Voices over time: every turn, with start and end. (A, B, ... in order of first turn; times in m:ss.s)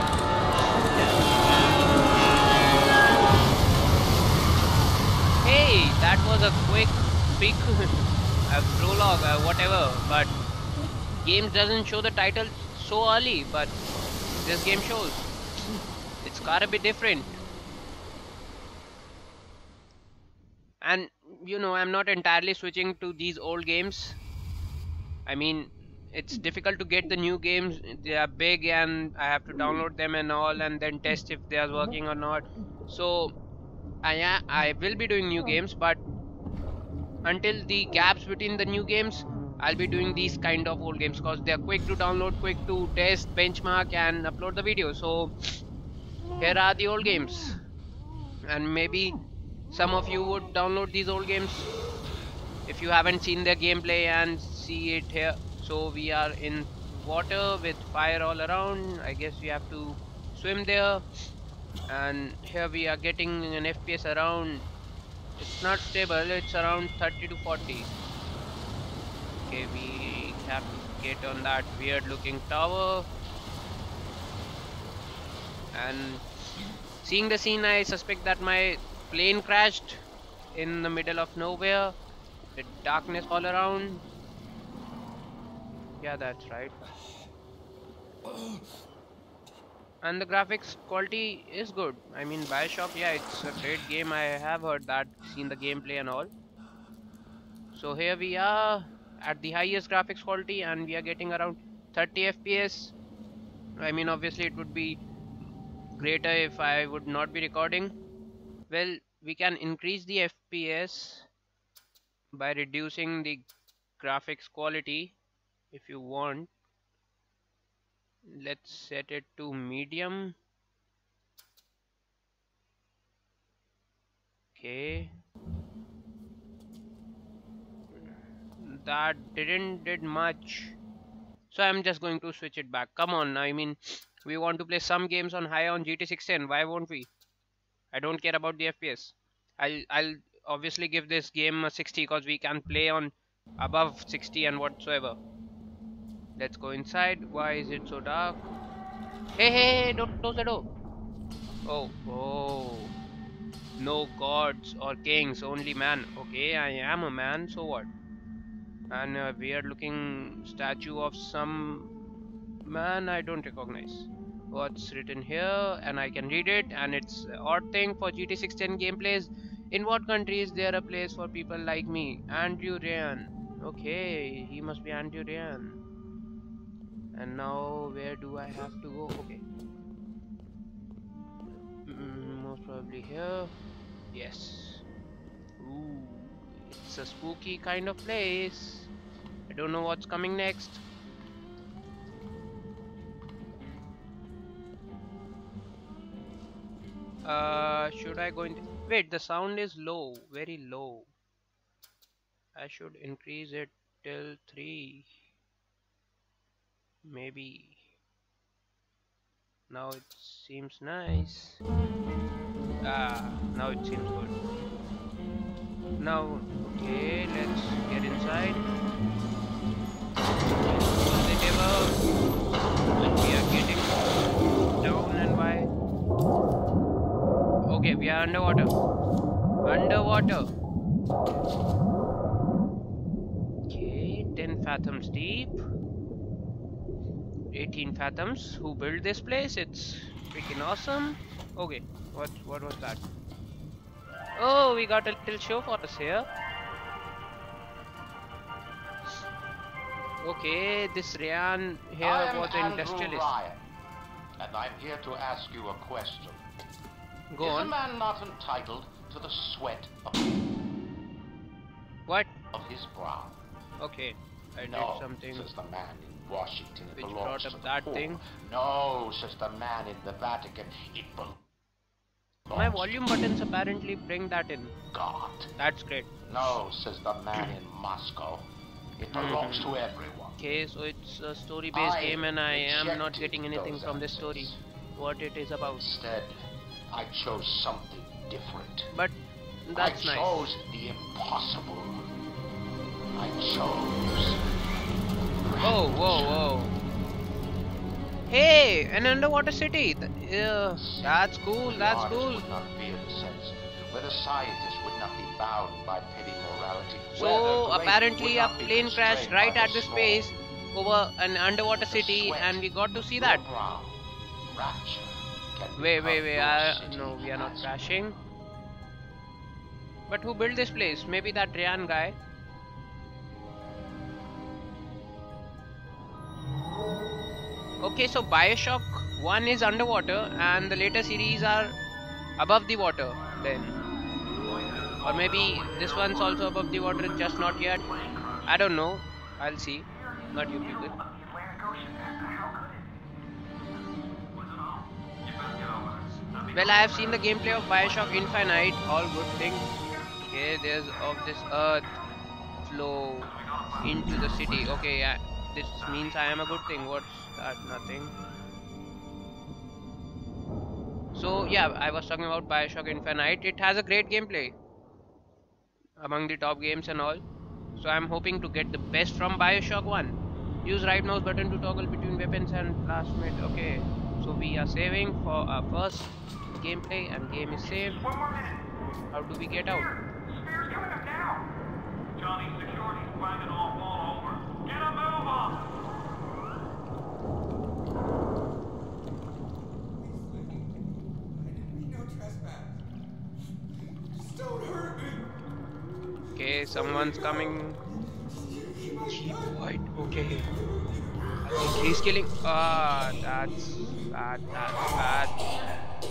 0:00.8-0:01.2 A
0:05.4-0:10.3 A
0:11.2-0:13.8 A
0:14.3-0:15.3 A
0:16.2-0:17.4 A
0:20.8-0:24.2 A
0:25.2-0:33.3 A
0:34.0-0:36.0 A
0:37.2-0:45.3 A
0:46.4-0:47.6 A
0:48.5-0:49.1 A
0:49.7-0:51.7 A
0:52.7-1:01.0 A
1:01.9-1:04.7 A
1:05.4-1:07.9 A
1:09.4-1:13.1 A
1:15.7-1:16.2 A
1:17.0-1:20.0 A
1:20.5-1:21.9 A
1:22.6-1:24.0 A
1:26.0-1:26.8 A
1:30.0-1:36.3 A
1:37.7-1:42.9 A
1:43.8-1:45.0 A
1:45.9-1:47.9 A
1:48.7-1:51.3 A
1:52.3-1:53.4 A
1:54.0-1:55.1 A
1:55.7-1:56.5 A
1:58.3-2:00.3 A
2:04.6-2:05.1 A
2:07.9-2:10.8 A
2:11.5-2:17.1 A
2:17.9-2:25.2 A
2:26.4-2:28.4 A
2:29.3-2:30.7 A
2:31.6-2:32.9 A
2:33.8-2:37.9 A
2:38.9-2:41.9 A
2:42.6-2:55.8 A
2:57.1-2:59.4 A
3:01.9-3:03.5 A
3:04.1-3:04.8 A
3:05.6-3:08.9 A
3:09.5-3:10.8 A
3:17.2-3:21.1 A
3:22.6-3:25.1 A
3:27.0-3:27.8 A
3:29.7-3:31.6 A
3:32.8-3:34.3 A
3:36.0-3:38.7 A
3:40.6-3:42.0 A
3:43.0-3:44.1 A
3:44.8-3:45.7 A
3:47.7-3:48.7 A
3:49.6-3:50.5 A
3:53.7-3:55.6 A
3:57.5-4:03.0 A
4:04.4-4:06.3 A
4:10.2-4:13.3 A
4:12.0-4:13.6 B
4:14.4-4:16.4 B
4:17.3-4:17.7 A
4:17.4-4:20.3 B
4:22.1-4:22.3 A
4:22.5-4:23.4 B
4:23.8-4:25.5 A
4:24.6-4:31.4 B
4:27.0-4:28.2 A
4:32.5-4:33.0 B
4:32.5-4:34.7 A
4:34.9-4:35.5 B
4:35.6-4:36.1 A
4:36.2-4:40.4 B
4:39.1-4:39.8 A
4:40.4-4:45.8 A
4:41.7-4:44.6 B
4:45.8-4:46.4 B
4:46.9-4:48.9 B
4:48.9-4:50.4 A
4:49.8-4:52.0 B
4:53.1-4:54.4 B
4:55.4-4:56.4 B
4:55.6-4:56.8 A
4:58.3-5:02.4 A
5:00.8-5:10.3 B
5:07.1-5:13.4 A
5:11.8-5:12.6 B
5:13.2-5:17.8 B
5:15.8-5:18.2 A
5:20.1-5:22.2 A
5:27.8-5:31.8 A
5:32.4-5:33.8 A
5:34.4-5:36.4 C
5:35.0-5:37.8 A
5:37.0-5:38.6 C
5:38.4-5:40.9 A
5:40.1-5:42.9 C
5:44.3-5:48.2 C
5:46.5-5:49.7 A
5:50.2-5:51.9 A
5:52.6-5:58.2 A
5:53.2-5:54.3 C
5:55.8-5:56.7 C
6:01.1-6:04.6 A
6:06.0-6:07.2 A
6:07.8-6:18.0 A
6:17.8-6:18.6 C
6:19.1-6:19.9 A
6:20.3-6:21.5 C
6:22.2-6:25.7 C
6:36.3-6:37.8 A
6:39.0-6:40.5 A
6:41.4-6:45.6 A